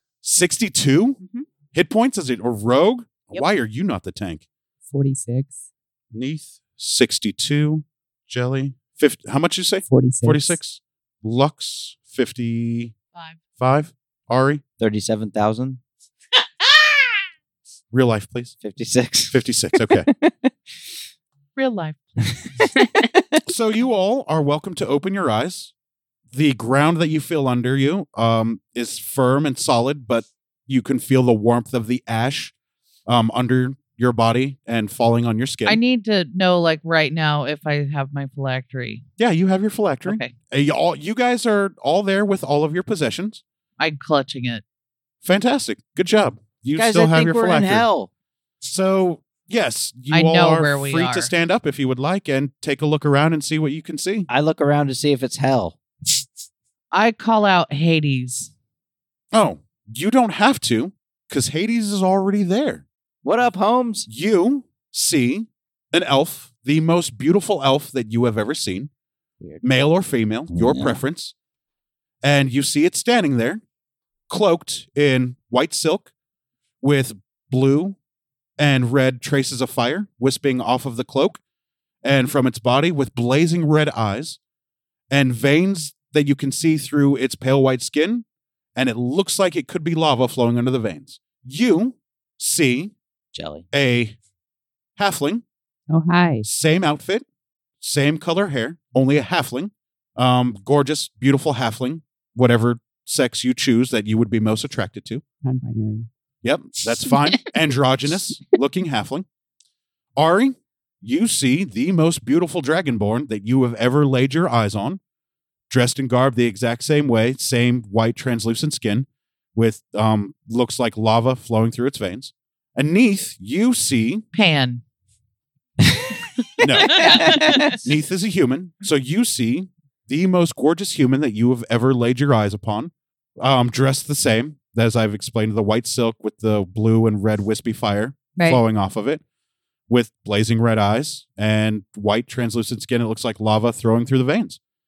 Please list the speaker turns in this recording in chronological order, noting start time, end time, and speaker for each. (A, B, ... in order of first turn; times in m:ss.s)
0:00.2-0:01.2 A
0:01.7-0:04.4 A
0:04.9-0:05.6 B
0:06.1-0:12.9 A
0:09.9-0:10.6 B
0:13.1-0:13.4 C
0:13.6-0:14.6 A
0:14.8-0:15.8 D
0:17.9-0:18.5 A
0:18.6-0:19.4 D
0:19.3-0:20.1 A
0:20.1-0:20.5 D
0:21.6-0:22.5 C
0:23.0-0:23.4 D
0:23.5-0:25.7 A
0:26.3-0:32.5 A
0:33.1-0:35.8 A
0:35.6-0:39.0 C
0:39.2-0:43.4 A
0:40.0-0:40.3 C
0:43.8-0:44.6 C
0:45.2-0:47.9 A
0:46.8-0:48.1 D
0:48.6-0:54.3 A
0:50.1-0:51.3 C
0:54.3-0:55.8 D
0:56.9-0:58.5 C
0:59.3-1:02.8 A
1:03.2-1:04.1 D
1:04.1-1:08.9 A
1:09.6-1:11.3 A
1:10.5-1:11.0 D
1:12.2-1:13.6 A
1:14.3-1:16.1 A
1:16.8-1:18.0 A
1:18.6-1:21.4 A
1:22.0-1:24.4 A
1:25.1-1:28.2 A
1:28.8-1:32.9 A
1:33.3-1:33.7 D
1:33.7-1:34.2 A
1:35.0-1:35.4 A
1:35.9-1:36.4 B
1:36.4-1:37.2 A
1:37.8-1:45.2 A
1:45.4-1:46.1 B
1:46.4-1:49.2 A
1:50.2-1:55.0 A
1:55.7-2:04.2 A
2:04.3-2:04.8 C
2:05.8-2:06.1 D
2:06.6-2:19.2 A
2:06.8-2:07.8 C
2:06.8-2:07.8 D
2:19.9-2:24.6 A